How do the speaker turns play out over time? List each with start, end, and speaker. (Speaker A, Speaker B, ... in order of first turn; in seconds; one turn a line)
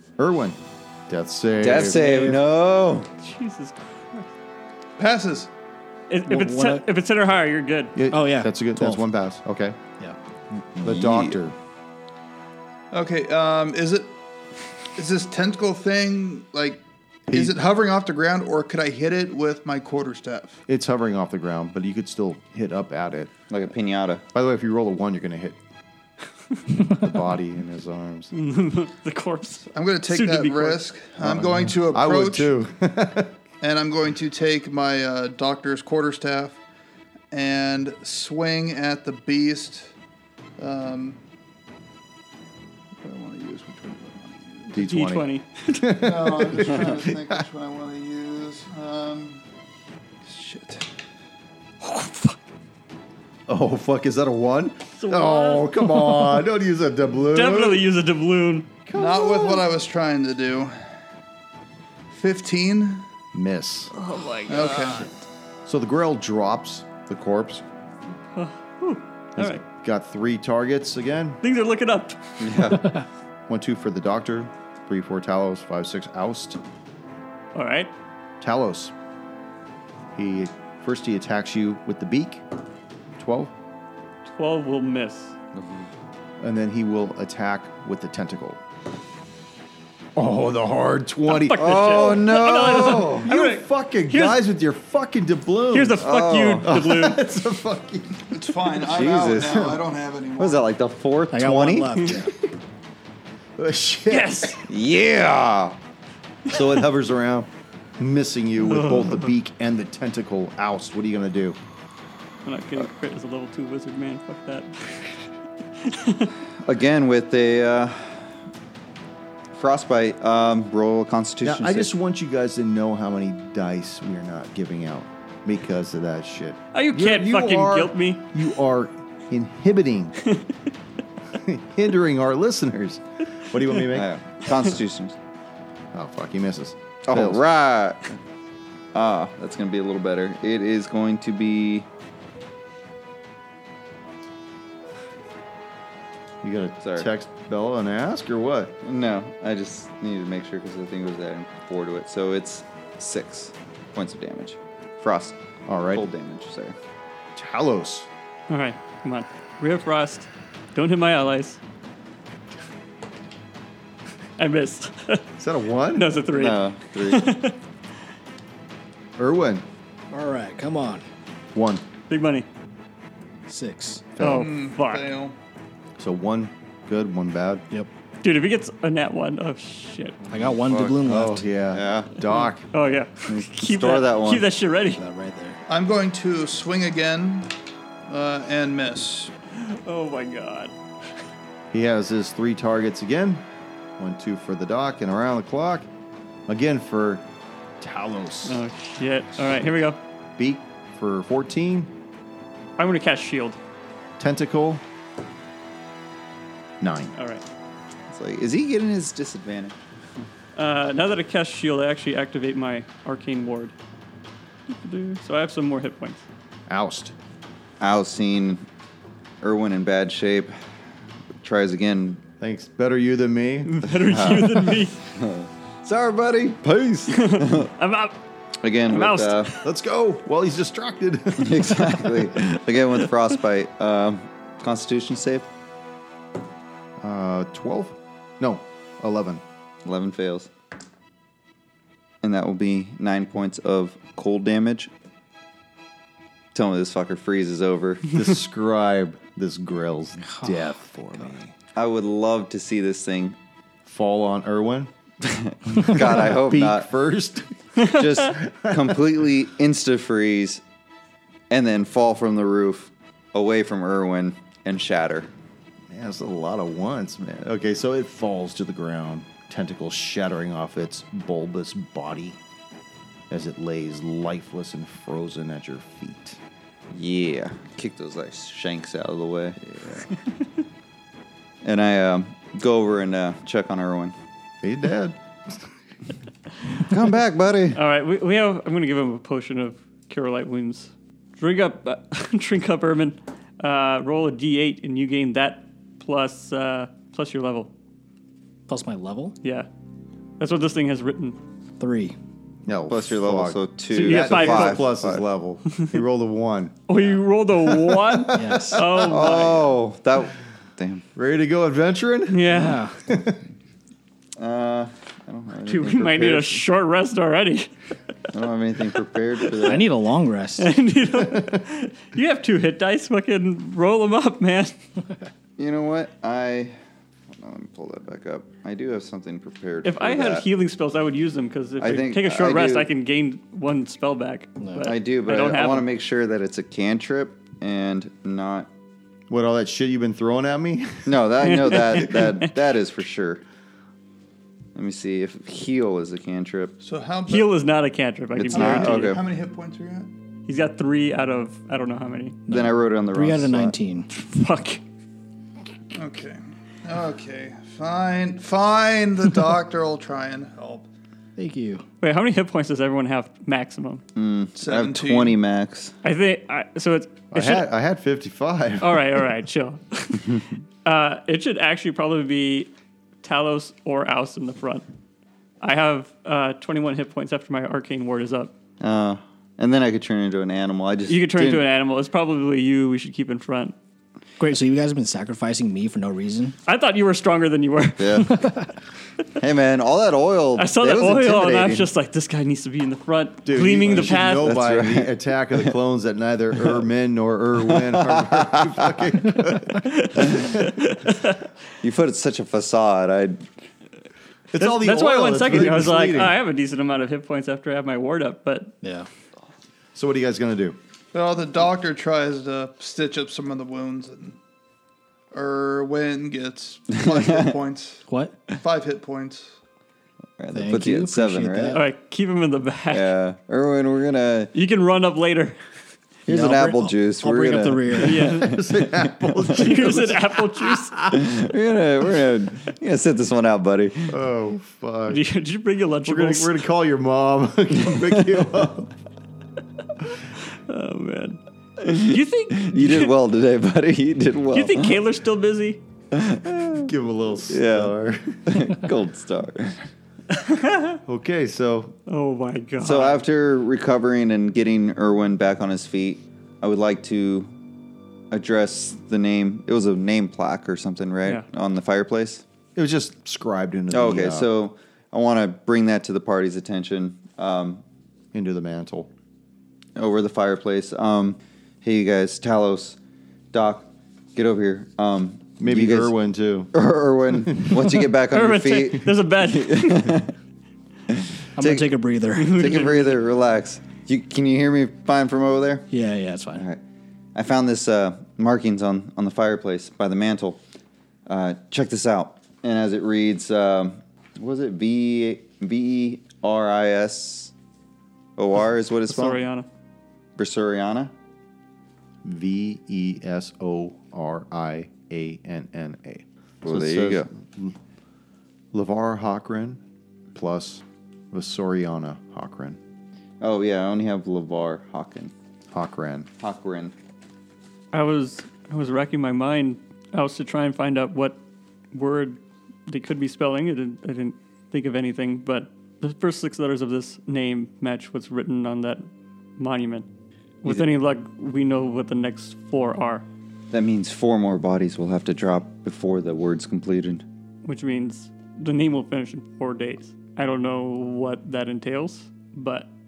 Speaker A: 0.2-2.2
Speaker B: 1.6-3.1
Speaker C: 1.9-2.4
Speaker D: 2.0-2.3
Speaker C: 3.2-4.3
Speaker E: 5.0-5.5
Speaker C: 6.1-8.0
Speaker D: 6.2-6.9
Speaker A: 7.9-9.8
Speaker D: 8.1-9.1
Speaker B: 10.5-11.4
Speaker A: 10.8-11.5
Speaker E: 12.9-14.2
Speaker E: 14.9-20.6
Speaker A: 17.3-17.6
Speaker A: 20.7-23.3
Speaker B: 23.5-24.2
Speaker A: 24.3-25.6
Speaker A: 26.8-28.3
Speaker C: 28.3-30.8
Speaker E: 29.7-32.5
Speaker A: 31.2-33.3
Speaker E: 33.6-36.6
Speaker E: 37.3-39.9
Speaker E: 40.6-41.2
Speaker E: 43.0-44.7
Speaker A: 44.7-47.4
Speaker C: 44.7-46.0
Speaker E: 45.9-49.4
Speaker E: 50.2-50.9
Speaker C: 51.8-52.4
Speaker A: 53.5-57.9
Speaker C: 55.0-56.5
Speaker C: 57.2-58.7
Speaker A: 58.9-59.6
Speaker E: 58.9-60.9
Speaker E: 62.1-63.0
Speaker A: 63.3-63.9
Speaker C: 63.9-65.1
Speaker E: 64.5-65.1
Speaker A: 65.7-67.6
Speaker C: 68.3-69.6
Speaker A: 69.3-71.4
Speaker C: 71.4-72.7
Speaker B: 72.4-73.0
Speaker A: 73.5-76.6
Speaker C: 77.5-77.9
Speaker A: 78.4-78.9
Speaker A: 80.1-82.4
Speaker A: 83.2-83.5
Speaker C: 84.2-85.3
Speaker B: 85.5-85.9
Speaker A: 86.4-88.6
Speaker A: 90.2-92.2
Speaker C: 91.3-94.4
Speaker B: 91.5-93.3
Speaker A: 92.9-96.1
Speaker C: 95.7-97.2
Speaker B: 96.0-96.8
Speaker A: 96.6-98.3
Speaker E: 98.3-100.7
Speaker B: 98.8-99.8
Speaker B: 100.4-102.2
Speaker D: 101.3-102.3
Speaker A: 103.6-104.6
Speaker C: 104.1-104.6
Speaker B: 104.7-105.8
Speaker A: 106.5-111.6
Speaker C: 108.7-109.3
Speaker C: 112.4-115.2
Speaker C: 115.8-116.3
Speaker B: 116.6-118.3
Speaker B: 119.5-121.9
Speaker A: 121.4-130.2
Speaker C: 126.7-128.2
Speaker A: 131.3-134.1
Speaker B: 133.9-135.2
Speaker A: 135.9-137.4
Speaker B: 137.1-138.2
Speaker B: 138.9-141.9
Speaker A: 146.4-148.8
Speaker B: 146.8-147.1
Speaker B: 148.8-155.4
Speaker A: 155.7-156.1
Speaker B: 155.9-156.8
Speaker A: 157.3-158.1
Speaker C: 158.5-161.6
Speaker C: 164.4-165.2
Speaker A: 165.4-166.1
Speaker C: 165.9-167.6
Speaker B: 166.3-167.3
Speaker A: 169.2-169.6
Speaker D: 170.1-171.0
Speaker A: 171.5-171.8
Speaker C: 172.1-172.5
Speaker D: 173.5-174.1
Speaker A: 174.2-174.5
Speaker C: 174.2-175.1
Speaker E: 174.3-175.4
Speaker A: 176.0-177.6
Speaker C: 178.2-180.2
Speaker D: 180.3-181.5
Speaker B: 180.4-181.0
Speaker A: 181.0-182.6
Speaker B: 181.7-182.1
Speaker C: 182.3-185.0
Speaker B: 183.3-184.4
Speaker D: 184.9-185.6
Speaker E: 185.7-187.5
Speaker E: 188.1-189.3
Speaker C: 189.5-190.7
Speaker A: 191.7-193.4
Speaker A: 194.0-195.9
Speaker A: 196.5-197.2
Speaker A: 197.8-198.6
Speaker C: 198.4-200.0
Speaker A: 200.4-201.9
Speaker C: 202.8-203.6
Speaker A: 204.2-204.8
Speaker A: 206.8-207.1
Speaker C: 207.1-207.4
Speaker B: 208.1-209.8
Speaker C: 210.6-213.7
Speaker C: 214.7-216.2
Speaker A: 216.7-217.1
Speaker B: 217.8-218.6
Speaker B: 219.4-220.6
Speaker B: 221.4-222.2
Speaker A: 222.4-223.8
Speaker C: 223.7-225.0
Speaker B: 223.9-227.7
Speaker C: 227.1-228.1
Speaker B: 228.6-229.6
Speaker C: 228.8-229.6
Speaker A: 229.6-232.2
Speaker B: 231.4-235.5
Speaker A: 237.0-239.4
Speaker B: 239.8-240.5
Speaker B: 242.2-244.9
Speaker B: 246.5-248.2
Speaker A: 248.1-251.5
Speaker D: 250.3-250.7
Speaker B: 251.7-253.4
Speaker A: 253.8-254.9
Speaker B: 255.2-256.9
Speaker A: 255.9-257.5
Speaker B: 257.8-260.6
Speaker A: 258.2-259.0
Speaker B: 261.5-265.3
Speaker A: 265.9-272.4
Speaker A: 273.3-276.4
Speaker B: 276.9-279.6
Speaker A: 279.6-280.1
Speaker B: 281.6-284.1
Speaker A: 284.6-285.7
Speaker B: 286.7-287.8
Speaker C: 287.7-297.7
Speaker D: 298.7-299.4
Speaker C: 299.4-299.7
Speaker C: 300.4-301.4
Speaker D: 301.8-302.2
Speaker A: 302.6-306.8
Speaker B: 302.9-305.2
Speaker C: 303.9-304.9
Speaker C: 306.9-309.7
Speaker A: 307.5-309.4
Speaker D: 308.3-309.0
Speaker B: 309.1-311.0
Speaker A: 311.1-313.4
Speaker C: 312.3-312.9
Speaker D: 312.5-313.0
Speaker B: 314.4-316.6
Speaker C: 315.6-317.7
Speaker B: 318.3-319.9
Speaker C: 319.4-319.8
Speaker D: 319.6-320.7
Speaker C: 320.6-324.8
Speaker A: 321.3-321.6
Speaker B: 325.6-326.8
Speaker B: 327.3-330.4
Speaker C: 329.8-335.9
Speaker B: 331.8-332.9
Speaker D: 334.6-334.9
Speaker B: 334.8-338.7
Speaker A: 339.3-341.8
Speaker B: 341.1-343.4
Speaker C: 341.4-342.5
Speaker B: 344.7-346.8
Speaker E: 346.8-347.6
Speaker C: 347.3-349.2
Speaker B: 348.4-349.2
Speaker E: 348.5-350.1
Speaker C: 350.5-352.4
Speaker D: 352.5-354.1
Speaker B: 352.5-353.7
Speaker C: 354.1-354.8
Speaker E: 355.9-360.9
Speaker D: 361.4-361.8
Speaker C: 362.0-364.0
Speaker B: 364.1-365.9
Speaker E: 364.6-365.4
Speaker C: 366.0-367.7
Speaker A: 367.3-369.2
Speaker C: 368.8-372.7
Speaker C: 373.2-374.8
Speaker C: 375.6-378.5
Speaker B: 378.8-381.6
Speaker C: 381.1-383.7
Speaker D: 384.4-386.6
Speaker C: 386.6-388.4
Speaker B: 388.0-388.4
Speaker D: 388.3-388.7
Speaker B: 389.4-391.9
Speaker C: 390.6-394.6
Speaker A: 393.4-400.9
Speaker B: 393.8-395.7
Speaker B: 397.7-399.1
Speaker C: 399.7-401.3
Speaker B: 400.2-400.6
Speaker B: 401.8-403.4
Speaker A: 404.5-406.4
Speaker C: 404.5-408.7
Speaker D: 408.8-409.1
Speaker A: 409.9-410.8
Speaker E: 411.1-414.4
Speaker E: 415.3-419.6
Speaker B: 416.9-417.6
Speaker D: 418.1-418.4
Speaker B: 420.4-421.8
Speaker D: 420.5-421.8
Speaker C: 421.7-423.1
Speaker B: 422.9-424.5
Speaker C: 424.5-425.6
Speaker B: 426.3-428.2
Speaker D: 426.3-428.4
Speaker C: 428.0-428.6
Speaker A: 428.3-431.3
Speaker C: 429.4-431.0
Speaker B: 431.1-434.1
Speaker A: 434.1-435.2
Speaker C: 435.1-436.6
Speaker A: 436.0-438.9
Speaker B: 437.9-438.5
Speaker C: 440.1-441.4
Speaker B: 441.8-445.0
Speaker C: 441.9-443.1
Speaker C: 444.5-445.8
Speaker B: 446.1-446.9
Speaker A: 446.8-448.6
Speaker B: 447.5-447.9
Speaker B: 448.4-449.8
Speaker C: 450.3-451.0
Speaker A: 451.0-451.9
Speaker C: 452.1-453.2
Speaker B: 452.8-457.5
Speaker B: 458.3-462.4
Speaker A: 462.8-464.5
Speaker B: 463.9-467.8
Speaker A: 468.3-469.1
Speaker B: 469.9-473.0
Speaker B: 473.5-476.1
Speaker A: 475.6-476.7
Speaker B: 476.7-480.3
Speaker C: 478.3-480.2
Speaker B: 481.1-481.9
Speaker D: 481.6-482.9
Speaker C: 482.3-483.2
Speaker B: 482.5-485.9
Speaker D: 485.9-486.6
Speaker B: 486.6-486.8
Speaker B: 487.3-490.6
Speaker B: 491.2-497.5
Speaker B: 498.4-499.4
Speaker C: 499.1-499.7
Speaker B: 500.4-501.1
Speaker A: 502.2-507.8
Speaker B: 506.6-507.3
Speaker A: 508.7-509.8
Speaker A: 510.3-512.8
Speaker B: 513.4-515.3
Speaker A: 515.7-516.3
Speaker B: 516.4-516.9
Speaker C: 517.9-521.4
Speaker C: 521.9-529.0
Speaker C: 529.6-530.0
Speaker C: 530.6-533.2
Speaker B: 533.7-537.2
Speaker C: 537.6-542.9